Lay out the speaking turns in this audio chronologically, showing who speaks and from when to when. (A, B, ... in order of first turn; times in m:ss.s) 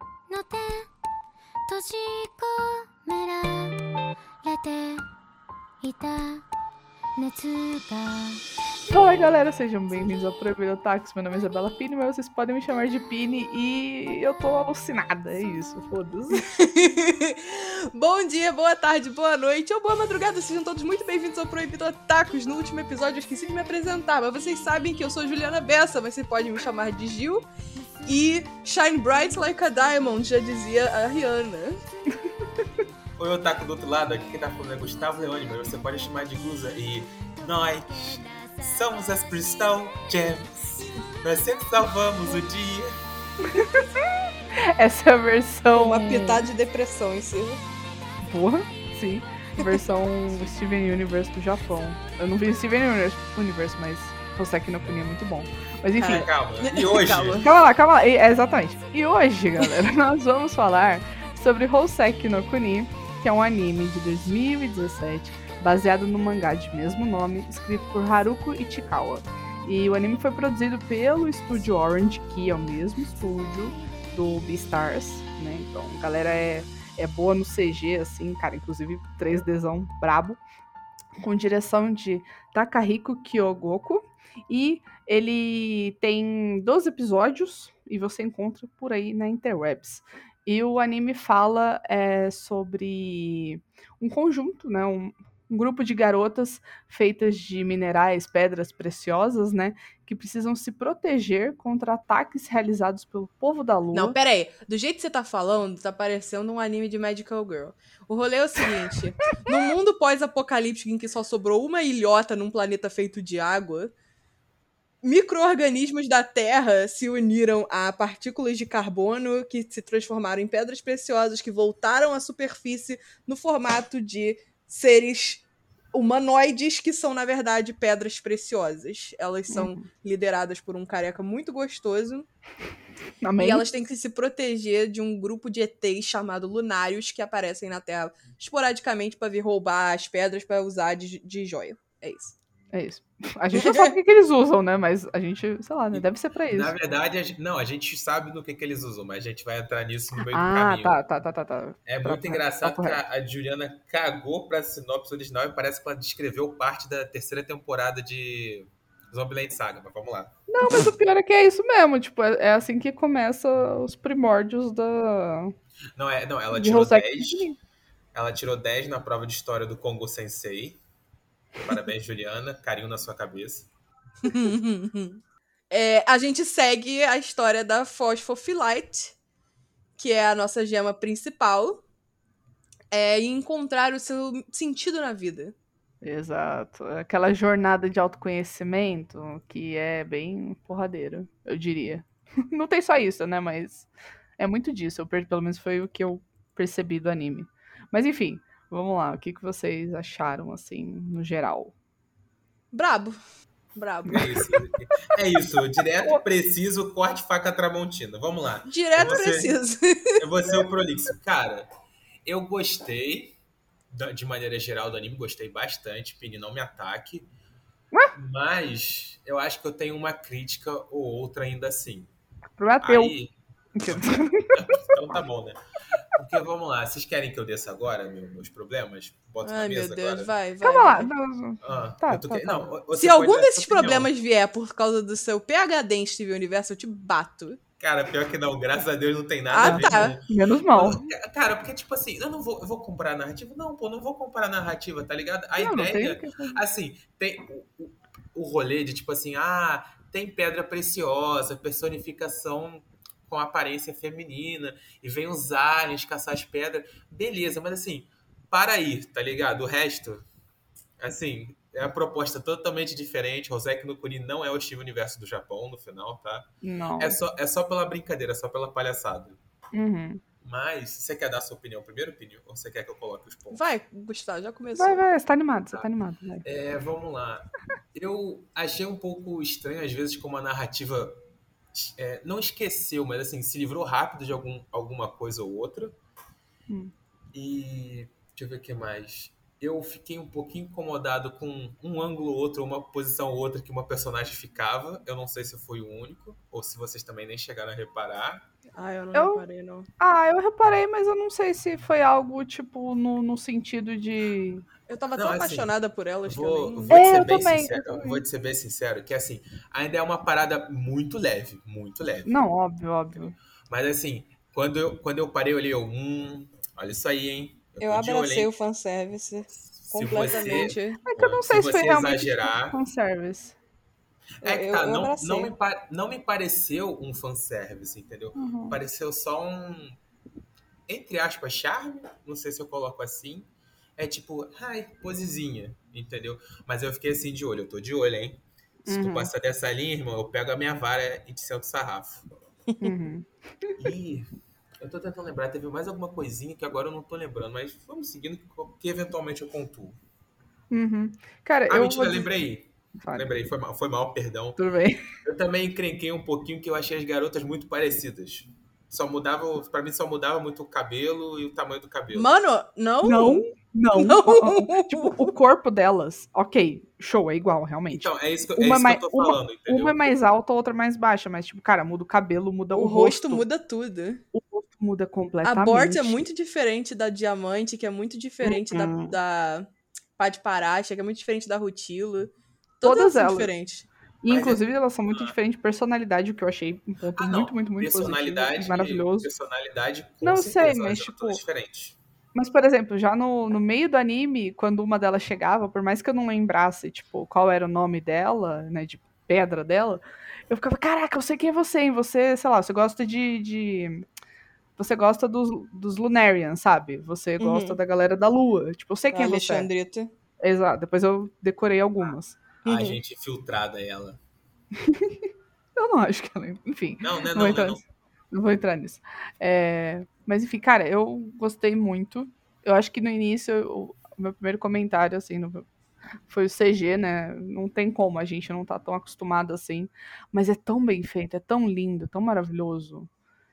0:00.3-0:00.9 A
0:01.7-0:03.8 A
0:04.4-0:05.1 A
0:05.8-0:06.5 A
0:07.2-0:08.4 A
0:08.9-0:16.4 B
0:16.5-0:27.5 C
0:28.0-0:31.8 C
0:33.2-0:40.6 D
0:37.4-0:38.7 A
0:41.2-0:43.0 D
0:43.4-0:44.0 B
0:44.7-0:46.5 B
0:45.7-0:47.6 C
0:48.2-0:56.3 B
0:56.0-0:57.5 C
0:56.0-0:57.5 D
0:57.4-1:20.4 B
1:21.2-1:44.2 B
1:43.9-1:53.9 C
1:55.0-2:12.3 C
2:09.5-2:09.9 B
2:13.2-2:13.6 B
2:13.4-2:22.4 C
2:22.7-2:26.8 B
2:23.5-2:23.9 C
2:25.9-2:31.0 D
2:30.3-2:33.0 B
2:31.9-2:40.9 D
2:40.5-2:45.5 B
2:46.0-2:47.5 D
2:46.5-2:47.6 B
2:48.1-2:50.8 D
2:51.6-2:53.7 D
2:54.2-2:59.2 C
3:00.0-3:01.8 C
3:02.9-3:05.6 C
3:06.0-3:21.7 B
3:22.7-3:23.2 C
3:23.8-3:24.6 C
3:24.1-3:29.6 D
3:28.7-3:30.2 C
3:30.2-3:31.7 D
3:32.2-3:33.4 D
3:33.9-3:37.3 D
3:38.1-3:42.1 D
3:42.6-3:43.2 B
3:42.8-3:43.3 D
3:43.8-3:44.6 B
3:43.9-3:45.6 D
3:46.1-3:50.3 D
3:49.4-3:51.1 C
3:50.6-3:52.7 B
3:51.6-3:54.1 D
3:52.9-3:57.6 C
3:57.8-4:20.3 D
3:59.5-4:00.2 C
3:59.6-4:01.1 B
4:05.6-4:06.6 B
4:21.0-4:29.4 D
4:26.6-4:27.2 B
4:29.7-4:30.2 B
4:30.4-4:33.6 D
4:33.5-4:35.0 C
4:34.8-4:36.4 B
4:36.4-4:41.2 D
4:41.7-4:46.0 D
4:47.3-4:58.5 D
4:58.8-4:59.9 C
4:59.2-4:59.4 B
5:00.0-5:04.6 B
5:04.9-5:07.0 C
5:05.2-5:05.7 D
5:06.3-5:12.3 D
5:06.9-5:08.2 B
5:12.3-5:13.4 B
5:13.7-5:18.5 D
5:17.8-5:21.0 C
5:19.9-5:22.8 D
5:20.4-5:23.6 B
5:24.4-5:30.0 D
5:24.4-5:25.5 C
5:28.4-5:28.8 B
5:30.9-5:42.3 D
5:38.9-5:39.3 B
5:42.8-5:43.7 B
5:43.8-5:50.0 D
5:50.7-5:52.3 B
5:51.7-5:54.6 D
5:53.0-5:53.3 B
5:54.6-5:55.1 B
5:55.2-6:02.3 D
6:02.1-6:05.3 C
6:03.0-6:13.4 B
6:07.9-6:10.0 D
6:12.7-6:14.2 C
6:14.3-6:16.2 B
6:15.4-6:23.9 C
6:18.4-6:19.2 B
6:22.8-6:23.5 B
6:24.2-6:29.3 B
6:24.3-6:25.3 D
6:27.2-6:32.0 D
6:30.2-6:31.4 B
6:32.4-6:44.0 B
6:44.8-6:49.7 B
6:47.4-6:47.8 C
6:49.1-6:50.1 C
6:50.4-6:52.4 B
6:52.6-6:53.0 C
6:52.6-6:54.2 D
6:54.8-6:55.2 B
6:55.8-7:05.6 B
6:57.0-6:57.8 D
7:06.3-7:13.1 B